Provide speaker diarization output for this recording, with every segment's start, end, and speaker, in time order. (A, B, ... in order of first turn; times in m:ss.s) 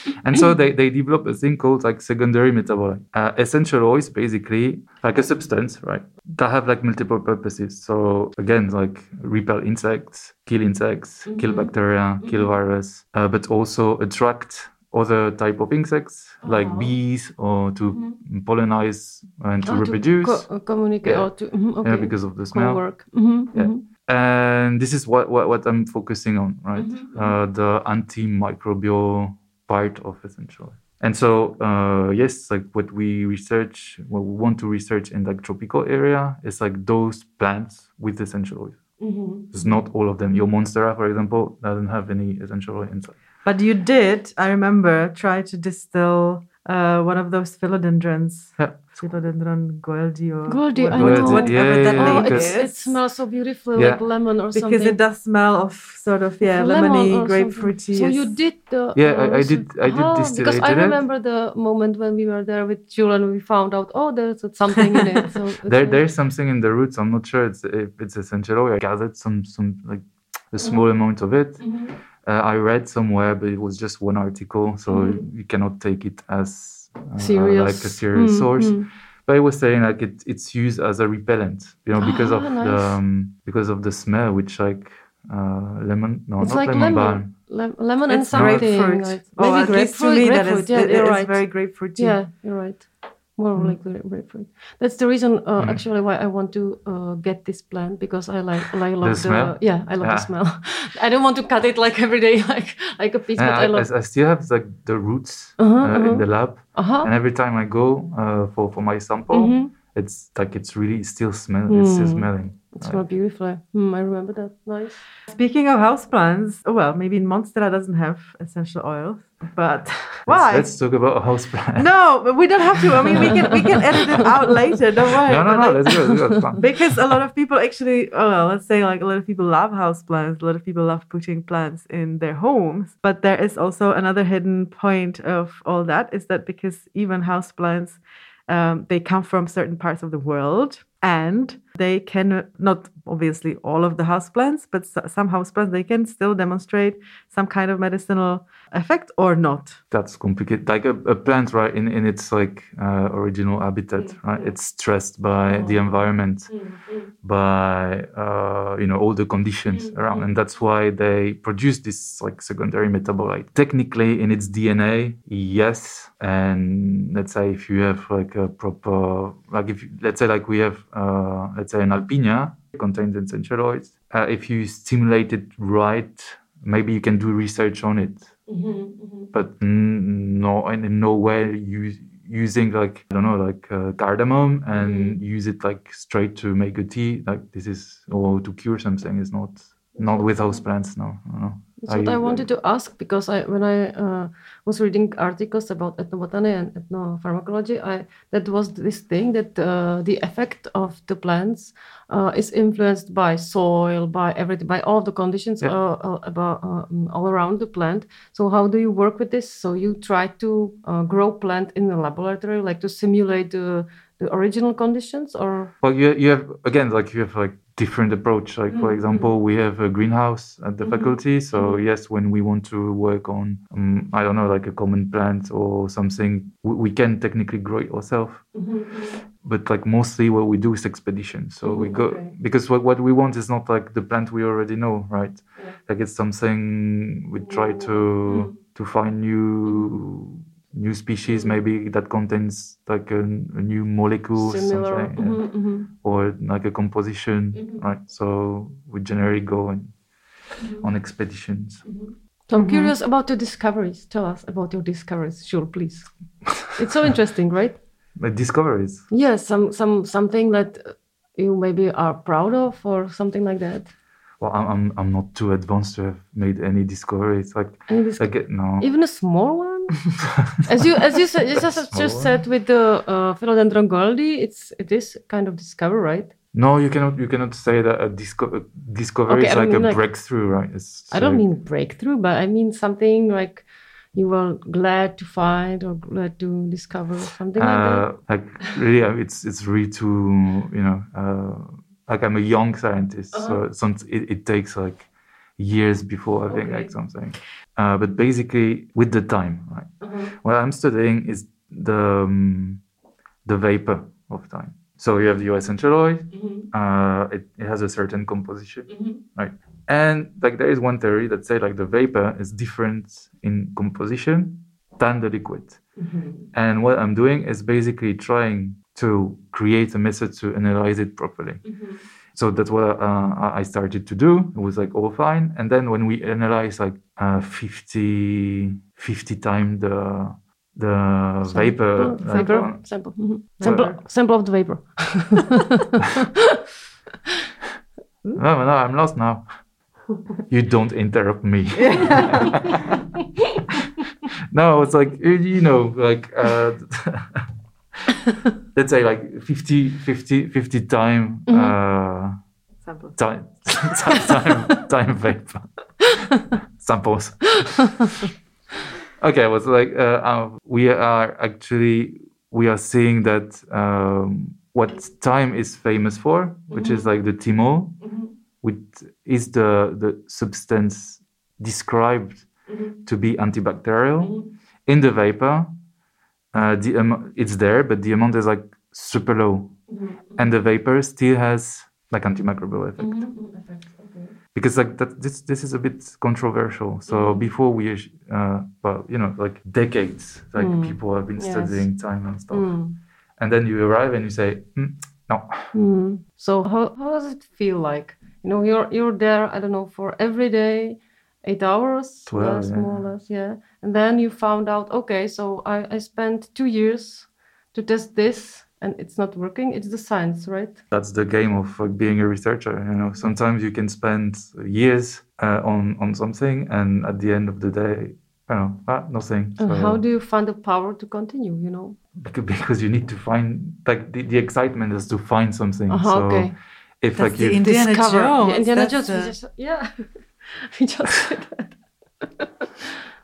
0:00.2-0:23.0 A
0:11.3-0:11.7 B
0:16.4-0:17.0 B
0:17.9-0:18.2 B
0:19.6-0:23.8 B
0:23.5-0:43.2 A
0:26.8-0:27.4 B
0:39.0-0:39.8 B
0:43.4-0:53.0 C
0:48.6-0:49.0 A
0:50.5-0:55.0 B
0:50.9-0:52.7 A
0:53.7-0:54.0 A
0:54.5-0:58.4 C
0:56.4-1:06.0 B
0:58.9-1:01.0 A
1:05.6-1:27.3 A
1:10.6-1:10.9 B
1:11.6-1:12.0 B
1:14.9-1:15.2 B
1:17.2-1:18.9 B
1:22.0-1:23.0 B
1:26.4-1:43.9 B
1:28.1-1:32.2 C
1:28.3-1:28.8 A
1:33.6-1:33.8 C
1:35.6-1:35.8 A
1:39.0-1:40.3 A
1:43.4-1:53.0 A
1:45.6-1:47.1 B
1:49.3-1:49.7 B
1:51.7-1:55.0 B
1:55.3-2:00.8 C
2:00.3-2:02.2 A
2:01.8-2:29.8 C
2:03.1-2:03.8 A
2:05.2-2:07.2 A
2:05.9-2:06.5 B
2:29.9-2:36.7 A
2:34.0-2:34.5 B
2:35.5-2:37.1 B
2:37.2-2:58.3 A
2:39.7-2:40.3 B
2:58.5-2:59.3 B
2:59.3-3:12.5 A
3:04.8-3:05.2 B
3:10.0-3:10.6 B
3:11.8-3:35.7 B
3:35.8-3:48.7 A
3:38.7-3:39.3 B
3:40.8-3:41.8 B
3:48.5-3:49.2 B
3:49.3-4:10.0 A
3:51.6-3:52.3 B
3:57.5-3:58.5 B
4:01.3-4:01.6 B
4:04.4-4:05.9 B
4:07.6-4:07.8 B
4:10.6-4:10.9 B
4:10.8-4:11.9 A
4:11.9-4:17.8 B
4:12.5-4:12.9 C
4:18.2-4:19.1 A
4:19.1-4:23.9 B
4:24.4-4:28.9 A
4:27.9-4:36.3 B
4:31.5-4:32.3 A
4:36.5-4:41.5 A
4:39.3-4:40.2 B
4:41.1-4:48.7 B
4:47.6-4:55.1 A
4:53.3-4:53.6 B
4:55.6-5:02.8 A
4:56.5-4:56.9 B
5:00.0-5:00.3 B
5:03.4-5:15.8 A
5:06.3-5:06.7 B
5:08.9-5:09.2 B
5:16.0-5:16.5 B
5:16.5-5:21.8 A
5:21.7-5:22.0 B
5:22.3-5:33.9 A
5:31.4-5:32.8 C
5:32.0-5:36.1 B
5:33.6-5:34.0 C
5:38.4-5:39.5 A
5:40.5-5:42.5 A
5:41.8-5:42.6 C
5:44.5-5:47.4 A
5:48.7-5:52.4 A
5:51.5-5:51.8 B
5:52.8-5:53.2 C
5:53.2-5:58.1 A
5:59.2-6:15.7 A
6:06.7-6:07.1 B
6:08.0-6:08.3 B
6:12.7-6:13.0 B
6:16.5-6:23.3 A
6:19.9-6:20.4 B
6:23.0-6:24.3 B
6:24.6-6:32.8 A
6:27.1-6:27.4 B
6:30.6-6:33.0 B
6:33.4-6:35.7 A
6:35.7-6:50.8 B
6:42.3-6:43.0 A
6:50.9-7:00.0 A
6:59.6-7:02.0 B
7:02.2-7:07.7 A
7:05.9-7:06.6 B
7:07.2-7:09.4 C
7:07.6-7:12.5 B